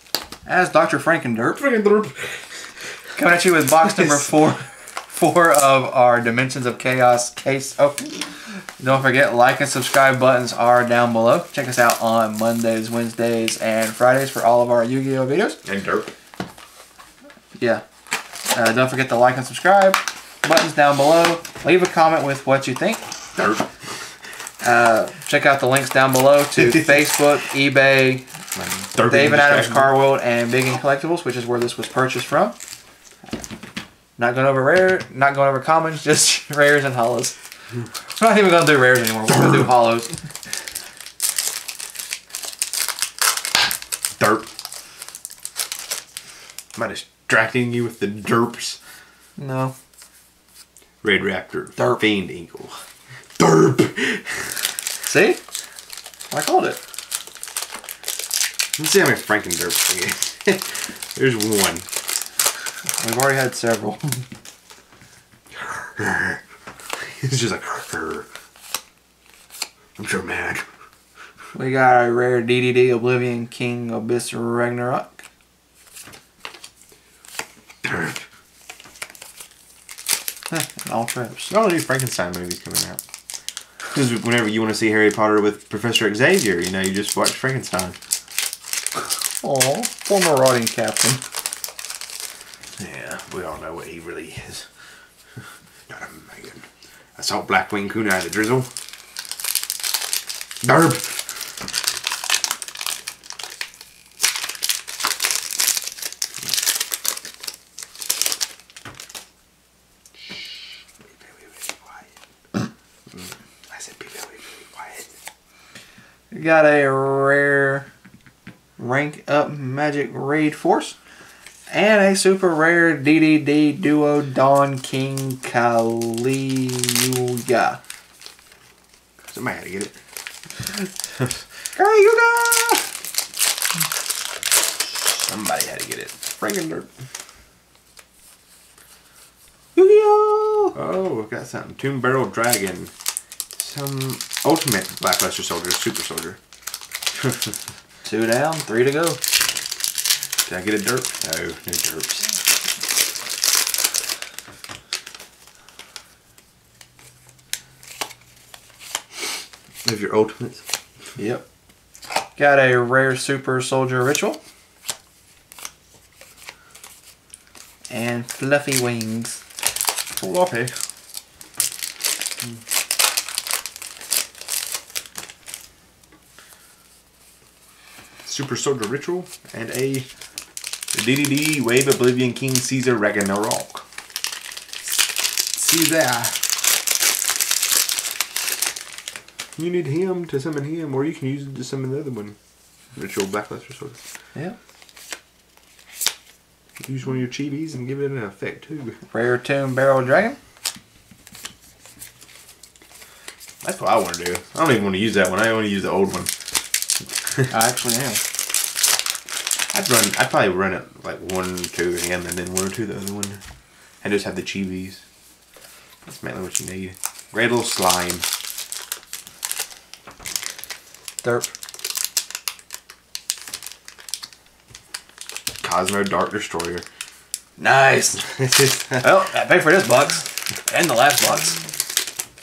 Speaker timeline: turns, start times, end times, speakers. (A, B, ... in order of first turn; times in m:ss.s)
0:00.4-0:01.6 A
0:01.6-0:02.6 B
0:03.2-0:15.6 A
0:03.8-0:04.3 B
0:15.6-0:16.1 B
0:17.6-0:17.8 A
0:18.5-0:23.0 A
0:23.4-0:23.7 B
0:24.6-0:28.3 A
0:26.6-0:27.0 B
0:28.5-0:29.9 B
0:29.0-0:32.6 A
0:34.2-0:37.4 A
0:38.2-0:40.2 A
0:39.3-0:39.7 B
0:44.2-0:44.5 B
0:46.7-0:48.8 B
0:49.4-0:49.7 A
0:51.0-0:52.8 B
0:53.4-0:54.6 B
0:55.0-0:55.4 A
0:56.3-0:56.8 A
0:58.8-1:01.9 B
1:03.0-1:04.3 A
1:05.5-1:06.4 B
1:07.0-1:08.3 B
1:10.0-1:10.6 B
1:11.5-1:15.2 A
1:17.8-1:18.2 B
1:20.5-1:21.5 A
1:21.5-1:23.0 B
1:23.9-1:28.0 B
1:29.4-1:31.2 A
1:32.8-1:34.7 B
1:35.9-1:38.7 B
1:40.6-1:41.4 B
1:51.2-1:52.0 B
1:53.1-1:55.1 B
1:56.3-1:57.9 A
1:58.8-2:01.0 A
2:01.7-2:07.8 A
2:09.3-2:10.0 B
2:11.7-2:12.9 A
2:14.9-2:16.9 B
2:19.7-2:20.7 A
2:20.7-2:22.9 B
2:23.5-2:26.4 B
2:27.1-2:27.5 B
2:28.0-2:29.2 A
2:30.4-2:32.3 B
2:39.8-2:40.6 B
2:41.2-2:41.4 A
2:42.4-2:44.4 A
2:47.9-2:49.4 A
2:50.2-2:50.7 B
2:58.2-3:00.1 B
3:00.9-3:03.8 B
3:05.5-3:06.4 B
3:09.6-3:12.4 B
3:12.9-3:14.0 B
3:16.8-3:19.0 B
3:19.1-3:20.4 A
3:23.6-3:26.3 B
3:27.5-3:28.2 A
3:29.7-3:33.4 B
3:34.0-3:35.0 B
3:36.0-3:38.2 B
3:41.2-3:41.5 A
3:45.6-3:46.8 B
3:47.6-3:48.2 A
3:48.2-3:49.0 B
3:49.0-3:51.6 A